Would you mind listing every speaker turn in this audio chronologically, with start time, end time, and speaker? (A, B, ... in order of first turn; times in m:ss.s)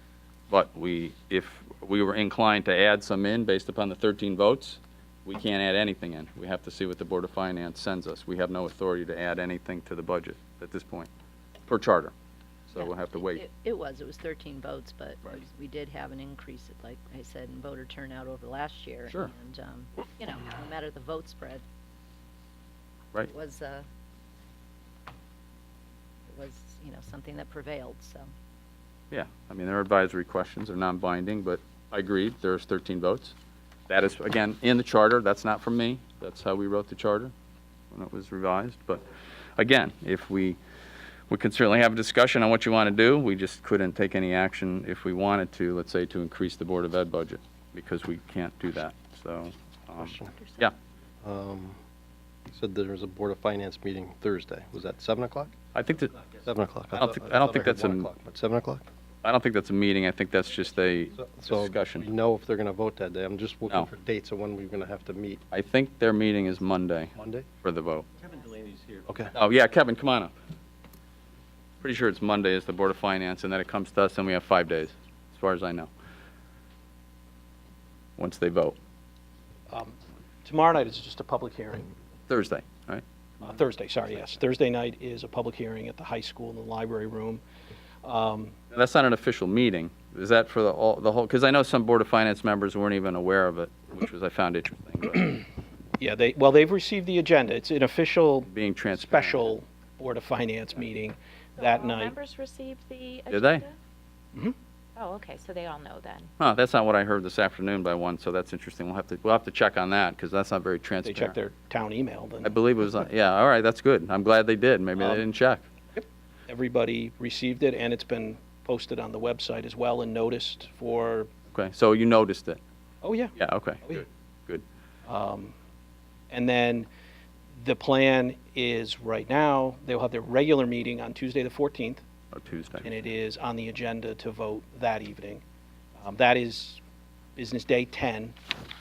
0:00.5-0:11.1 A
0:11.6-0:12.1 A
0:12.7-0:13.4 A
0:12.7-0:21.6 B
0:23.2-0:23.8 B
0:26.3-0:28.3 B
0:29.1-0:33.4 A
0:33.9-0:37.3 A
0:37.9-0:39.0 A
0:39.6-0:40.6 A
0:41.3-0:50.7 A
0:50.0-0:50.3 C
0:51.2-0:51.8 C
0:52.5-0:55.5 C
0:55.7-0:56.2 A
0:56.3-0:58.8 C
0:56.9-0:58.1 A
0:59.2-1:02.1 A
1:01.2-1:05.4 C
1:05.5-1:08.1 A
1:07.2-1:07.5 C
1:09.0-1:09.3 C
1:09.3-1:10.3 A
1:11.8-1:15.9 A
1:18.2-1:18.8 A
1:19.7-1:21.9 D
1:22.3-1:23.0 A
1:23.4-1:27.4 D
1:28.0-1:28.5 D
1:28.7-1:35.4 A
1:36.0-1:42.2 D
1:38.5-1:39.5 A
1:41.6-1:43.8 E
1:43.3-1:43.6 A
1:45.0-1:46.3 E
1:46.4-1:51.4 A
1:51.0-1:52.6 D
1:52.4-1:55.6 A
1:55.0-1:55.2 D
1:55.9-2:01.3 D
2:01.5-2:02.6 A
2:03.0-2:04.0 D
2:03.4-2:04.6 A
2:05.0-2:05.5 D
2:06.3-2:06.9 D
2:07.6-2:12.0 D
2:12.3-2:13.0 A
2:12.8-2:15.4 D
2:16.0-2:16.8 D
2:17.4-2:18.4 D